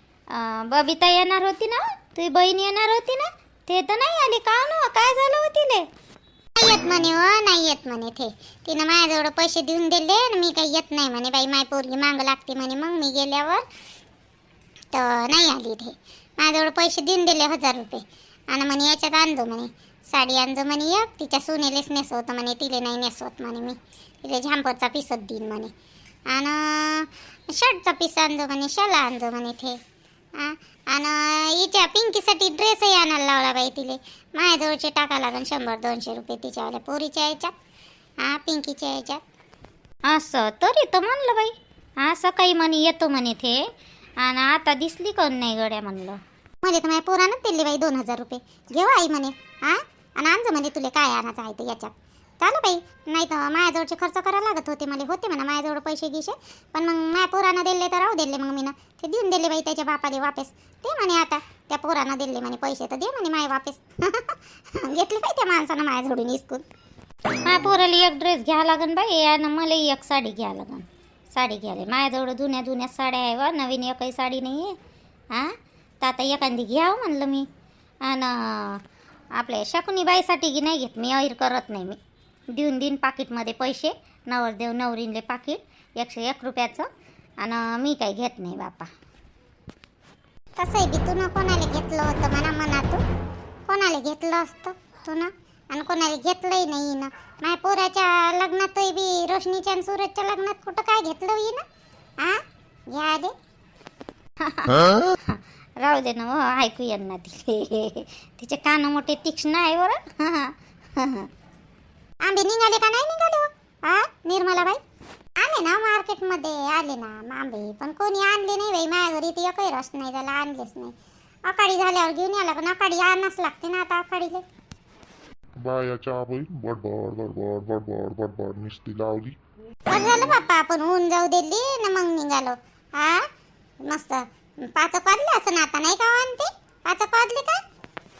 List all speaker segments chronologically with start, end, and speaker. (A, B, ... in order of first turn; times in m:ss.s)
0:00.3-0:05.8 A
0:06.6-0:13.6 B
0:14.9-0:25.7 B
0:26.3-0:29.8 B
0:30.3-0:37.5 B
0:38.2-0:39.2 B
0:40.0-0:43.7 A
0:44.2-0:46.2 A
0:46.6-1:06.6 B
1:07.4-1:14.7 A
1:15.3-1:17.4 A
1:18.0-1:18.8 A
1:19.4-1:22.0 A
1:22.5-1:26.9 A
1:27.4-1:28.9 A
1:30.6-1:33.0 B
1:33.7-1:41.6 B
1:42.2-1:43.3 B
1:44.4-1:51.3 A
1:52.2-1:54.8 B
1:55.4-2:00.9 B
2:01.5-2:04.4 B
2:05.6-2:09.4 C
2:09.9-2:13.3 B
2:13.8-2:17.6 B